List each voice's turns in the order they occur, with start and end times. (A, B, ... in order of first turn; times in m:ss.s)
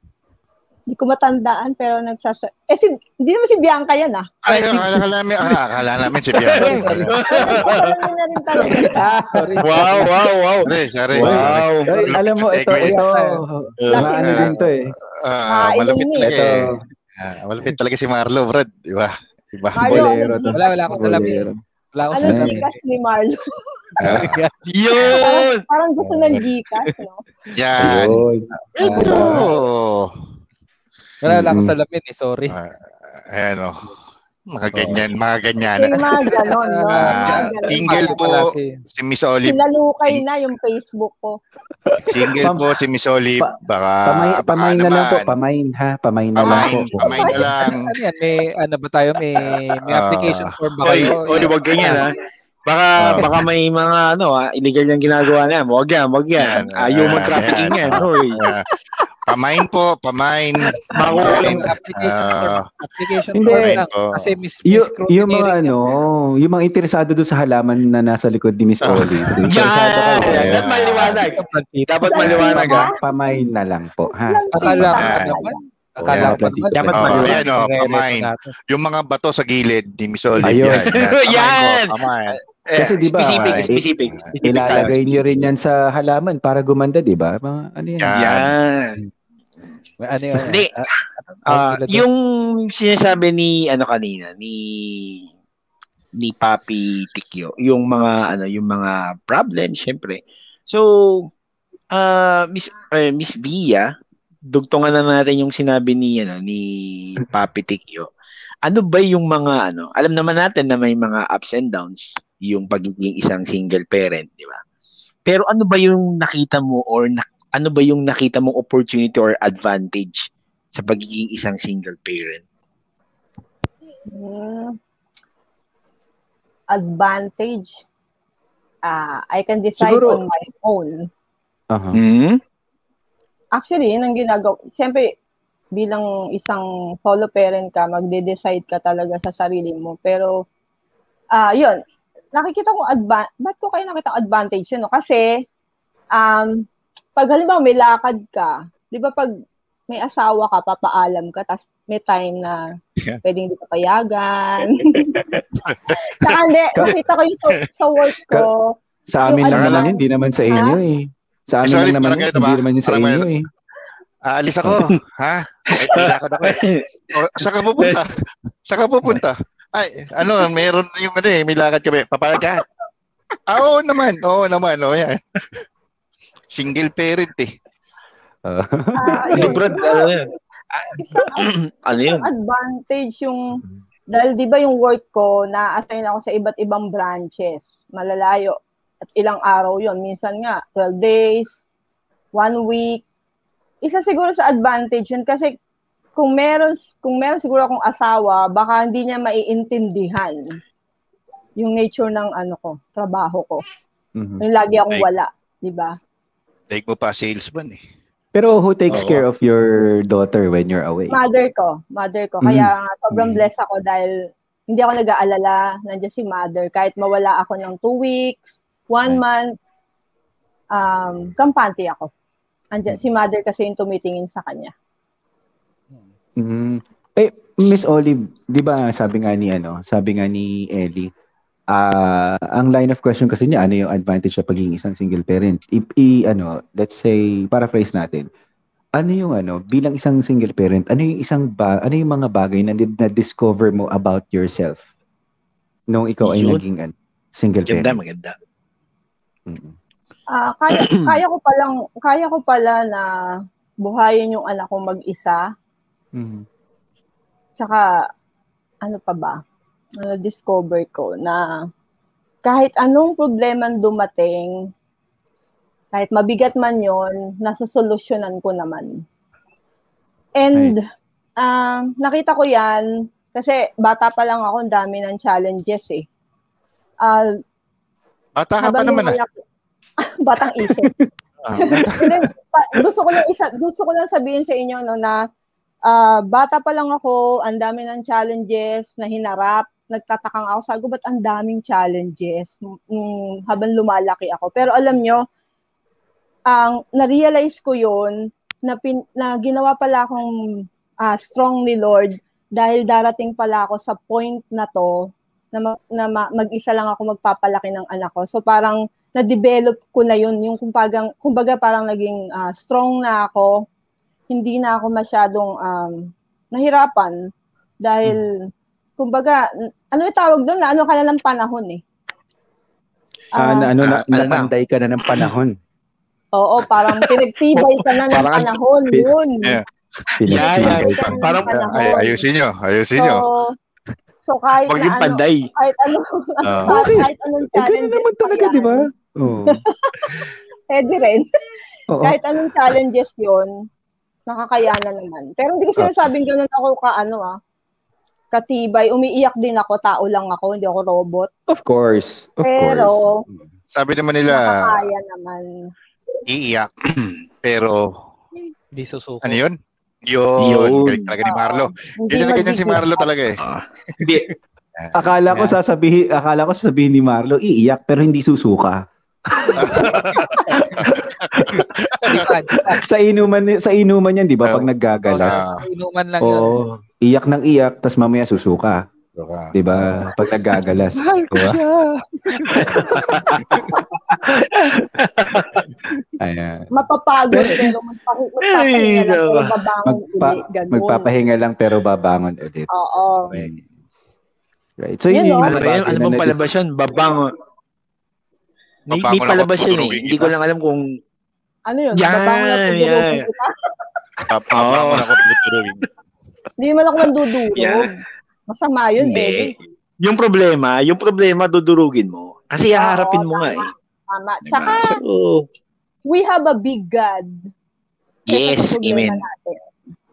0:00.9-0:05.0 A
0:04.4-0:07.1 B
0:06.3-0:08.0 C
0:06.5-0:07.7 D
0:07.2-0:09.2 A
0:08.8-0:10.2 D
0:08.9-0:09.9 E
0:09.6-0:12.0 C
0:10.6-0:13.0 B
0:11.1-0:14.9 E
0:12.8-0:13.4 D
0:13.8-0:20.0 B
0:13.9-0:14.5 A
0:15.5-0:16.3 A
0:16.2-0:16.8 E
0:19.8-0:20.9 A
0:19.8-0:21.6 E
0:20.6-0:22.8 D
0:22.1-0:23.4 A
0:22.2-0:22.6 E
0:24.0-0:24.5 D
0:24.0-0:25.2 B
0:24.7-0:25.6 C
0:25.1-0:27.2 A
0:27.5-0:28.2 B
0:27.8-0:29.4 E
0:28.8-0:30.1 B
0:28.8-0:29.5 D
0:31.2-0:32.6 D
0:31.3-0:31.7 E
0:32.5-0:32.8 B
0:33.3-0:33.9 B
0:34.5-0:36.4 B
0:34.7-0:35.0 D
0:35.8-0:38.4 A
0:36.3-0:38.8 D
0:37.0-0:40.2 B
0:39.4-0:41.4 A
0:41.9-0:42.8 E
0:42.0-0:45.4 B
0:44.1-0:47.5 E
0:46.4-0:47.9 B
0:46.5-0:52.0 D
0:47.1-0:47.4 A
0:49.9-0:50.5 B
0:50.8-0:52.1 C
0:52.7-0:58.5 C
0:53.0-0:53.3 B
0:56.4-0:58.6 B
0:59.3-1:02.7 B
1:00.9-1:01.7 C
1:01.1-1:06.0 D
1:03.4-1:03.8 E
1:03.5-1:04.3 B
1:04.7-1:11.2 E
1:08.8-1:09.5 B
1:09.5-1:12.9 C
1:10.2-1:11.2 B
1:11.3-1:12.2 D
1:12.1-1:13.0 A
1:12.3-1:14.9 E
1:14.3-1:15.6 A
1:14.5-1:18.5 D
1:14.9-1:15.4 B
1:16.0-1:17.3 E
1:16.0-1:16.4 B
1:16.7-1:17.4 C
1:16.9-1:22.4 B
1:20.4-1:22.1 C
1:20.4-1:21.0 E
1:22.8-1:25.5 C
1:22.8-1:23.8 E
1:23.2-1:24.9 B
1:24.4-1:28.3 E
1:28.0-1:28.5 B
1:28.2-1:28.9 C
1:30.0-1:32.0 D
1:30.4-1:30.7 C
1:31.5-1:35.2 C
1:36.2-1:41.3 C
1:41.9-1:43.9 C
1:44.5-1:48.1 C
1:48.6-1:54.6 C
1:55.3-2:02.4 C
2:04.1-2:04.8 A
2:06.7-2:07.8 A
2:08.8-2:10.9 A
2:09.8-2:10.2 E
2:11.7-2:12.0 E
2:11.9-2:12.4 C
2:13.6-2:15.1 A
2:15.8-2:20.3 A
2:21.3-2:21.8 A
2:22.4-2:25.2 A
2:26.2-2:26.6 A
2:27.2-2:29.3 A
2:29.9-2:32.6 A
2:33.2-2:35.3 A
2:35.6-2:36.0 B
2:35.9-2:40.0 A
2:39.1-2:43.4 E
2:39.5-2:39.9 B
2:40.5-2:40.8 A
2:41.6-2:43.3 B
2:44.3-2:48.1 B
2:44.6-2:44.9 C
2:45.8-2:46.9 C
2:47.4-2:48.0 C
2:48.6-2:52.6 B
2:53.5-2:55.2 B
2:56.5-2:57.5 B
2:58.5-2:59.6 E
2:59.0-3:00.2 A
2:59.2-3:02.3 C
3:01.0-3:01.5 A
3:02.1-3:03.6 A
3:04.1-3:08.6 A
3:09.2-3:11.6 A
3:12.4-3:13.0 A
3:13.8-3:15.5 A
3:16.2-3:20.4 A
3:21.6-3:23.6 A
3:24.2-3:24.4 E
3:24.4-3:26.0 A
3:26.7-3:27.8 B
3:28.4-3:31.2 E
3:28.9-3:29.2 B
3:31.1-3:34.1 A
3:32.4-3:33.4 E
3:34.7-3:39.5 A
3:40.8-3:42.1 A
3:42.7-3:44.7 A
3:46.4-3:51.1 E
3:51.7-3:58.3 E
3:59.0-4:04.8 E
4:05.9-4:08.0 E
4:06.2-4:06.6 C
4:07.7-4:08.4 C
4:09.5-4:09.8 E
4:10.3-4:13.1 A
4:10.7-4:11.2 C
4:13.8-4:15.4 A
4:16.2-4:16.4 E
4:17.6-4:17.8 A
4:18.8-4:19.4 A
4:20.0-4:21.4 A
4:22.4-4:24.5 A
4:25.9-4:29.0 A
4:30.4-4:30.8 A
4:31.4-4:36.0 A
4:37.0-4:37.3 A
4:38.4-4:39.2 B
4:38.6-4:39.4 A
4:40.2-4:40.9 A
4:40.6-4:41.1 E
4:41.4-4:42.2 B
4:41.6-4:45.2 A
4:45.9-4:55.2 A
4:56.5-5:00.3 A
5:01.0-5:13.5 A
5:14.3-5:16.0 A
5:16.5-5:17.2 A
5:17.8-5:18.3 A
5:19.0-5:19.4 A
5:19.9-5:21.8 A
5:23.4-5:23.7 A
5:23.4-5:25.6 E
5:23.8-5:24.5 C
5:25.0-5:25.3 C
5:26.4-5:29.6 A
5:26.9-5:28.5 C
5:30.2-5:31.2 E
5:30.3-5:32.0 C
5:30.4-5:32.2 A
5:31.0-5:33.2 B
5:33.0-5:33.5 A
5:34.2-5:38.8 A
5:34.7-5:35.5 C
5:36.4-5:36.8 B
5:36.7-5:39.6 E
5:39.5-5:41.2 A
5:41.9-5:42.2 E
5:42.0-5:43.5 A
5:44.3-5:47.4 A
5:48.3-5:51.3 A
5:51.5-5:53.5 E
5:52.4-5:53.2 A
5:53.7-5:54.9 B
5:54.3-5:55.5 A
5:56.3-5:56.7 B
5:57.4-5:57.9 B
5:58.8-5:59.4 D
5:59.2-6:03.4 B
6:00.4-6:01.2 C
6:01.2-6:03.1 A
6:03.4-6:04.3 C
6:04.9-6:08.8 E
6:05.3-6:05.6 D
6:09.4-6:11.7 E
6:09.6-6:12.3 B
6:12.1-6:12.8 D
6:12.7-6:15.4 E
6:14.4-6:15.6 B
6:15.1-6:16.6 D
6:16.2-6:18.8 E
6:19.1-6:19.8 B
6:19.5-6:21.6 E
6:20.9-6:22.9 D
6:22.5-6:22.8 C
6:22.7-6:23.0 B
6:22.9-6:23.4 E
6:23.5-6:23.8 D
6:24.7-6:25.6 C
6:26.2-6:26.7 E
6:26.7-6:31.1 A
6:27.3-6:27.7 C
6:28.5-6:29.5 C
6:29.8-6:32.7 E
6:32.7-6:33.3 A
6:33.3-6:33.7 E
6:34.8-6:36.5 E
6:35.1-6:35.5 A
6:35.4-6:37.2 C
6:38.9-6:40.8 C
6:38.9-6:40.3 B
6:41.7-6:43.5 A
6:42.0-6:43.3 C
6:44.3-6:45.9 B
6:44.5-6:45.3 C
6:46.6-6:47.9 A
6:47.5-6:47.9 C
6:48.5-6:49.5 A
6:49.0-6:53.7 C
6:52.7-6:55.0 A
6:54.5-6:55.4 C
6:56.1-6:57.4 A
6:58.3-6:59.2 C
6:58.3-6:59.7 A